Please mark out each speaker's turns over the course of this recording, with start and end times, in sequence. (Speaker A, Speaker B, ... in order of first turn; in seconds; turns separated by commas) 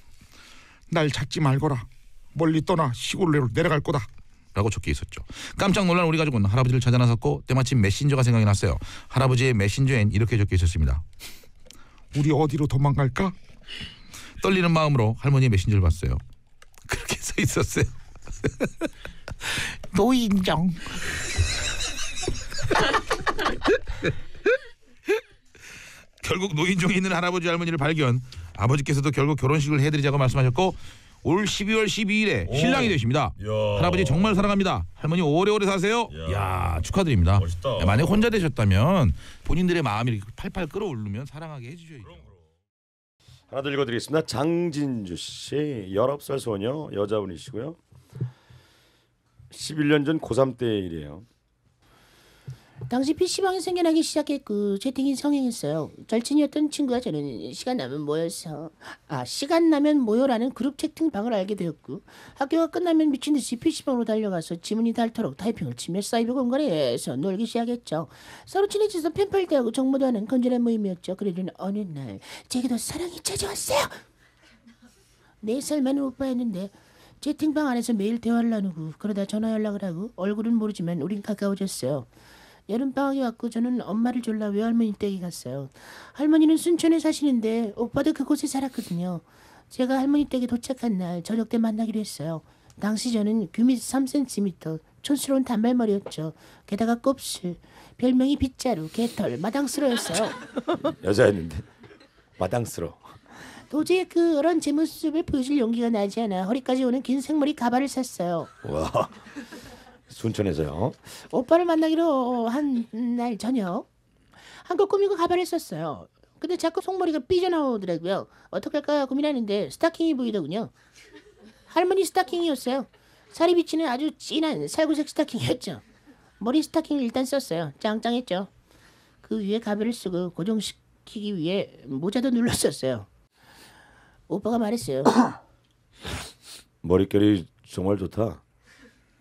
Speaker A: 0.9-11.0, Speaker A: 12.1-13.3, Speaker A: 14.4-16.2, Speaker A: 16.9-18.9, Speaker A: 19.9-21.0, Speaker A: 26.2-42.3, Speaker B: 32.5-34.4, Speaker B: 36.1-36.5, Speaker B: 37.4-38.2, Speaker B: 43.5-47.8, Speaker B: 49.5-51.2, Speaker C: 52.9-73.9, Speaker C: 75.4-82.1, Speaker C: 82.7-100.4, Speaker B: 100.8-101.7, Speaker B: 102.4-103.0, Speaker C: 103.7-108.5, Speaker B: 108.6-109.1, Speaker B: 110.1-111.0, Speaker C: 111.2-113.9, Speaker C: 114.6-120.7, Speaker C: 121.7-125.8, Speaker C: 126.4-128.5, Speaker C: 129.2-133.1, Speaker C: 134.3-135.2, Speaker B: 136.8-138.4